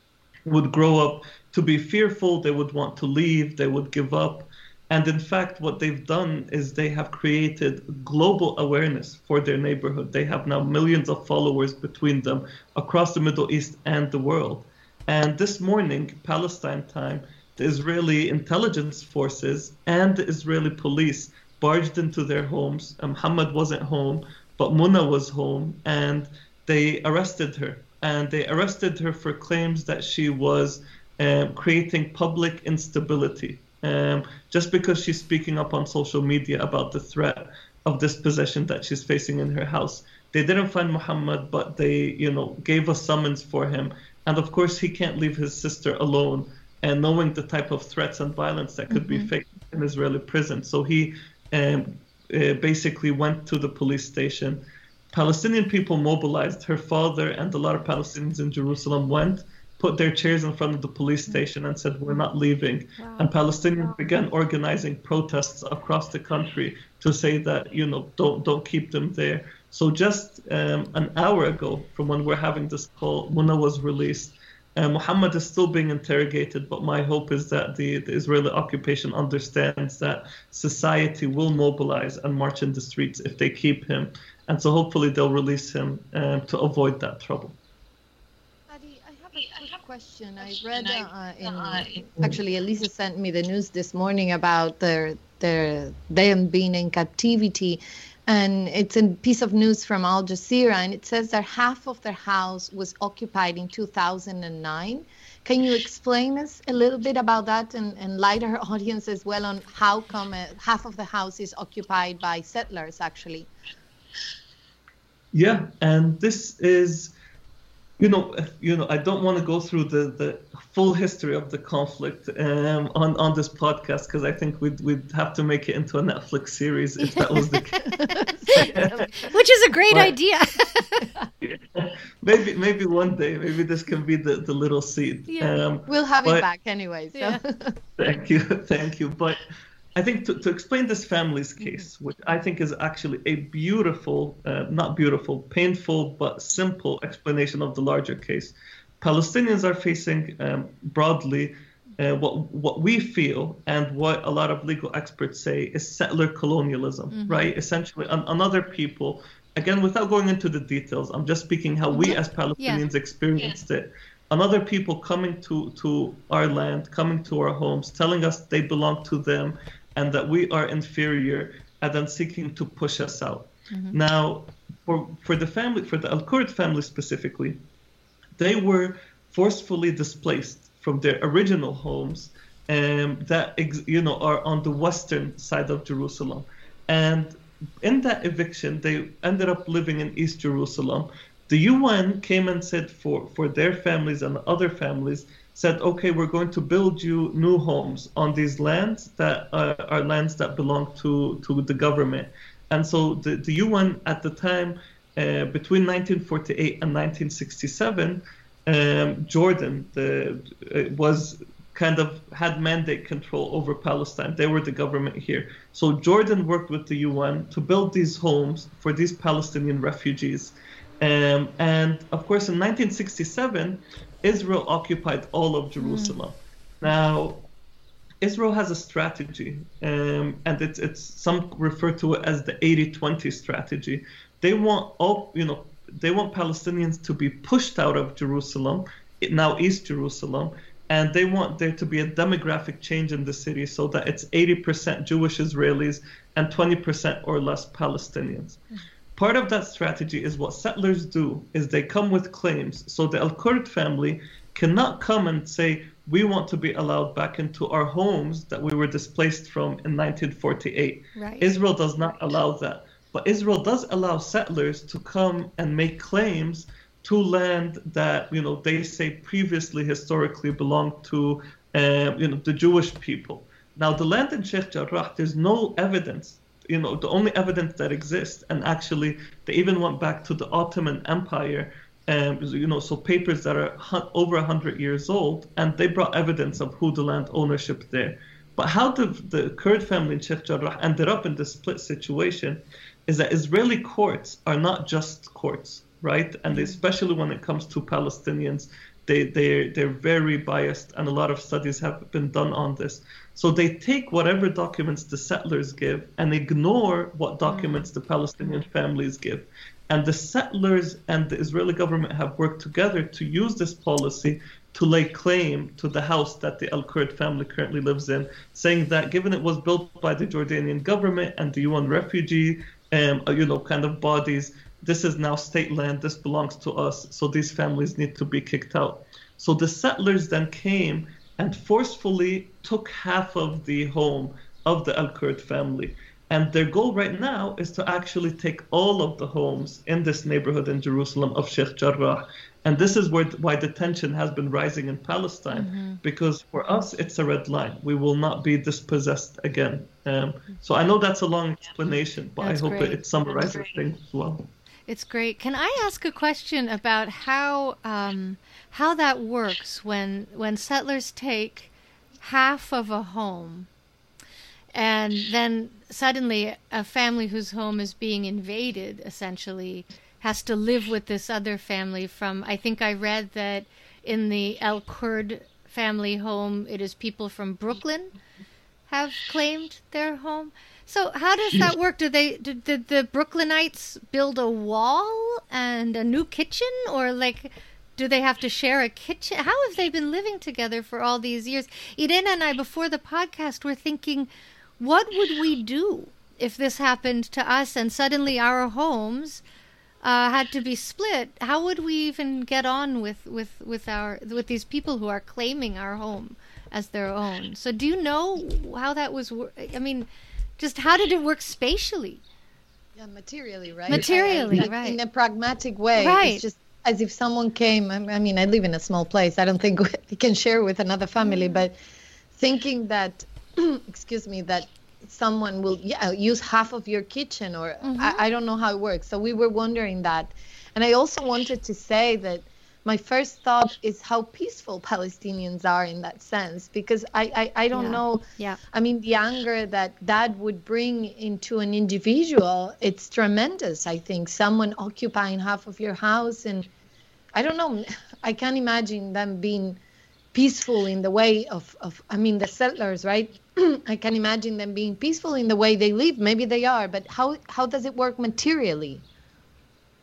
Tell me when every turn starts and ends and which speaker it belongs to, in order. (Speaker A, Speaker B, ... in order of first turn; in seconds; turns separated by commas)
Speaker A: 0.5-87.6, Speaker B: 48.9-49.3, Speaker B: 63.0-63.3, Speaker C: 88.7-113.5, Speaker A: 115.3-117.1, Speaker A: 118.0-129.3, Speaker B: 127.0-131.3, Speaker A: 131.4-136.4, Speaker B: 135.3-135.6, Speaker C: 135.9-137.8, Speaker A: 138.0-139.4, Speaker A: 140.0-177.6, Speaker B: 157.1-157.5, Speaker B: 161.9-162.8, Speaker B: 173.7-174.0, Speaker A: 178.4-227.4, Speaker B: 225.8-226.2, Speaker A: 228.2-248.6, Speaker A: 249.2-354.5, Speaker B: 261.2-261.5, Speaker B: 296.5-296.8, Speaker B: 307.5-307.9, Speaker B: 345.5-346.0, Speaker B: 352.4-353.0, Speaker B: 354.9-363.7, Speaker B: 364.7-378.1, Speaker B: 378.9-399.4, Speaker B: 400.0-410.1, Speaker B: 410.6-412.2, Speaker C: 413.0-421.8, Speaker B: 413.9-415.0, Speaker B: 415.9-416.4, Speaker B: 421.2-421.6, Speaker C: 422.3-446.7, Speaker B: 427.8-428.2, Speaker B: 437.7-438.6, Speaker C: 447.4-449.8, Speaker C: 450.3-459.1